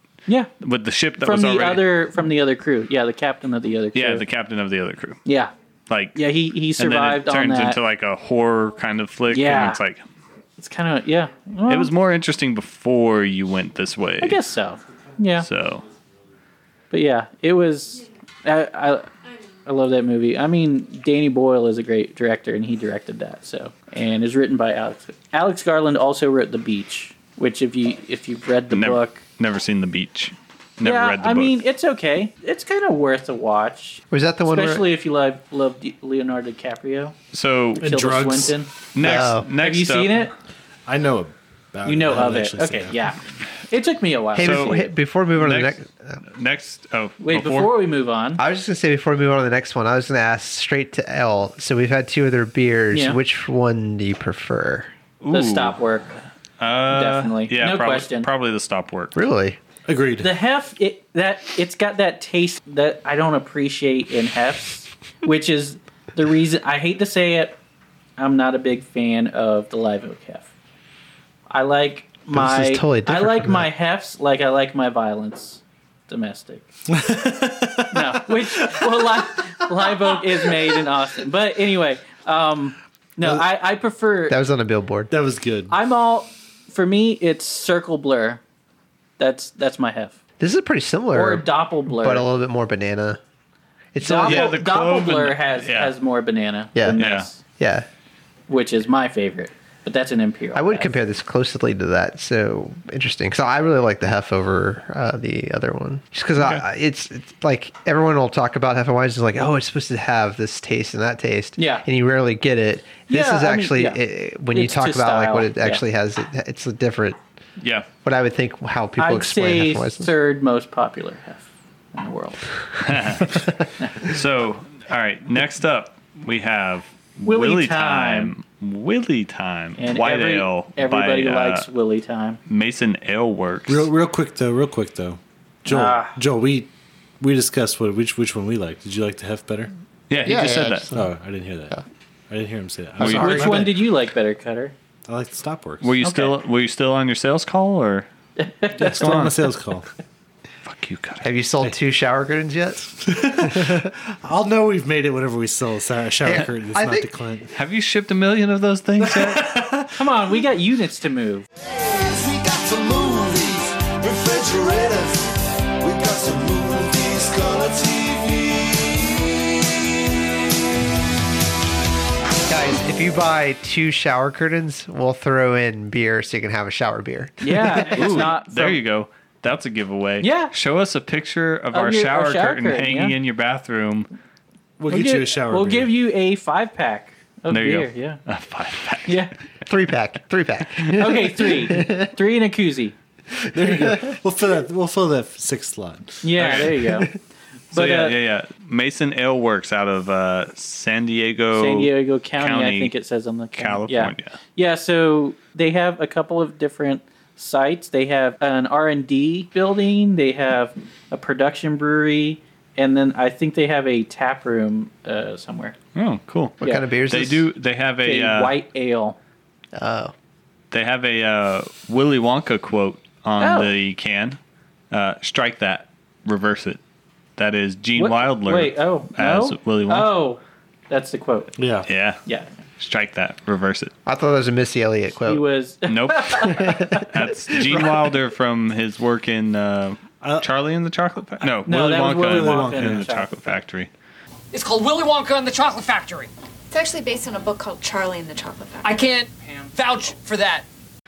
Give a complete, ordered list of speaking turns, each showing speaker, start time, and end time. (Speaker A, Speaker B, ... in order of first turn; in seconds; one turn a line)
Speaker A: 0.6-1.9
Speaker B: 1.2-4.2
Speaker A: 3.9-5.2
Speaker B: 5.2-5.5
Speaker A: 5.9-6.2
Speaker B: 6.1-7.8
Speaker A: 6.8-10.0
Speaker B: 9.3-9.8
Speaker B: 10.6-11.9
Speaker A: 11.7-14.4
Speaker B: 14.2-15.5
Speaker A: 15.4-15.8
Speaker B: 16.9-19.1
Speaker B: 19.6-29.2
Speaker A: 28.7-31.5
Speaker B: 30.8-37.1
Speaker C: 34.1-34.9
Speaker A: 37.3-37.9
Speaker D: 37.8-38.5
Speaker B: 37.8-40.3
Speaker A: 38.9-40.2
Speaker C: 39.0-39.5
Speaker D: 40.9-42.9
Speaker B: 41.8-44.9
Speaker C: 44.3-46.2
Speaker A: 44.4-45.7
Speaker A: 46.3-47.7
Speaker B: 47.2-48.4
Speaker C: 48.4-54.9
Speaker B: 52.9-53.2
Speaker A: 55.2-55.8
Speaker B: 55.3-56.1
Speaker A: 56.6-59.1
Speaker B: 56.9-58.3
Speaker C: 59.1-59.6
Speaker D: 59.9-60.3
Speaker B: 60.2-67.6
Speaker B: 68.2-70.5
Speaker B: 71.5-76.7
Speaker C: 72.3-73.6
Speaker D: 76.9-80.8
Speaker B: 77.9-84.4
Speaker C: 84.3-85.1
Speaker D: 85.1-85.7
Speaker B: 85.7-88.4
Speaker B: 89.2-90.2
Speaker C: 90.4-93.2
Speaker B: 91.1-92.3
Speaker C: 93.9-94.7
Speaker B: 94.0-97.4
Speaker A: 94.2-95.9
Speaker C: 96.7-97.0
Speaker A: 97.0-97.3
Speaker C: 97.6-97.9
Speaker B: 98.5-100.9
Speaker C: 100.5-117.2
Speaker B: 111.6-111.8
Speaker B: 113.1-115.8
Speaker A: 117.6-117.8
Speaker C: 118.0-120.1
Speaker B: 119.0-122.5
Speaker A: 122.8-123.5
Speaker A: 124.0-131.7
Speaker B: 127.2-128.3
Speaker B: 129.8-132.4
Speaker A: 132.5-133.9
Speaker D: 133.7-136.7
Speaker B: 135.7-136.2
Speaker D: 137.2-139.7
Speaker A: 140.1-140.9
Speaker C: 140.2-141.1
Speaker D: 140.9-141.8
Speaker D: 142.3-143.9
Speaker A: 143.0-143.6
Speaker C: 143.0-143.4
Speaker B: 143.1-144.7
Speaker D: 145.1-145.9
Speaker A: 145.8-148.1
Speaker B: 146.0-146.3
Speaker B: 148.4-149.2
Speaker D: 148.8-149.9
Speaker A: 148.8-149.5
Speaker A: 150.6-151.2
Speaker C: 151.2-153.9
Speaker D: 153.0-157.5
Speaker C: 156.2-157.1
Speaker A: 157.5-159.5
Speaker D: 159.0-160.1
Speaker B: 160.0-161.4
Speaker E: 161.6-169.5
Speaker C: 172.5-178.1
Speaker B: 177.4-178.8
Speaker A: 177.9-184.1
Speaker B: 180.2-180.5
Speaker B: 181.7-183.2
Speaker D: 184.8-185.9
Speaker B: 184.9-188.2
Speaker A: 187.5-189.2
Speaker B: 189.1-189.3
Speaker C: 189.7-192.1
Speaker B: 190.9-192.9
Speaker C: 193.4-194.2
Speaker D: 193.5-196.6
Speaker B: 196.2-197.1
Speaker A: 196.4-196.8
Speaker B: 197.7-198.2
Speaker A: 197.7-202.9
Speaker B: 201.5-215.8
Speaker A: 203.6-204.3
Speaker A: 215.9-218.5
Speaker C: 216.6-217.5
Speaker B: 218.0-219.2
Speaker C: 219.7-220.1
Speaker A: 220.7-224.4
Speaker B: 223.4-223.7
Speaker A: 224.9-226.8
Speaker A: 227.4-230.1
Speaker B: 227.9-231.5
Speaker D: 231.6-231.9
Speaker A: 231.8-232.2
Speaker B: 232.2-232.5
Speaker A: 232.8-233.9
Speaker C: 234.1-235.4
Speaker B: 235.2-237.1
Speaker A: 235.9-243.9
Speaker C: 236.5-237.1
Speaker D: 240.2-240.5
Speaker D: 241.4-243.0
Speaker B: 241.6-243.5
Speaker F: 244.5-246.3
Speaker G: 246.7-248.9
Speaker F: 248.8-250.7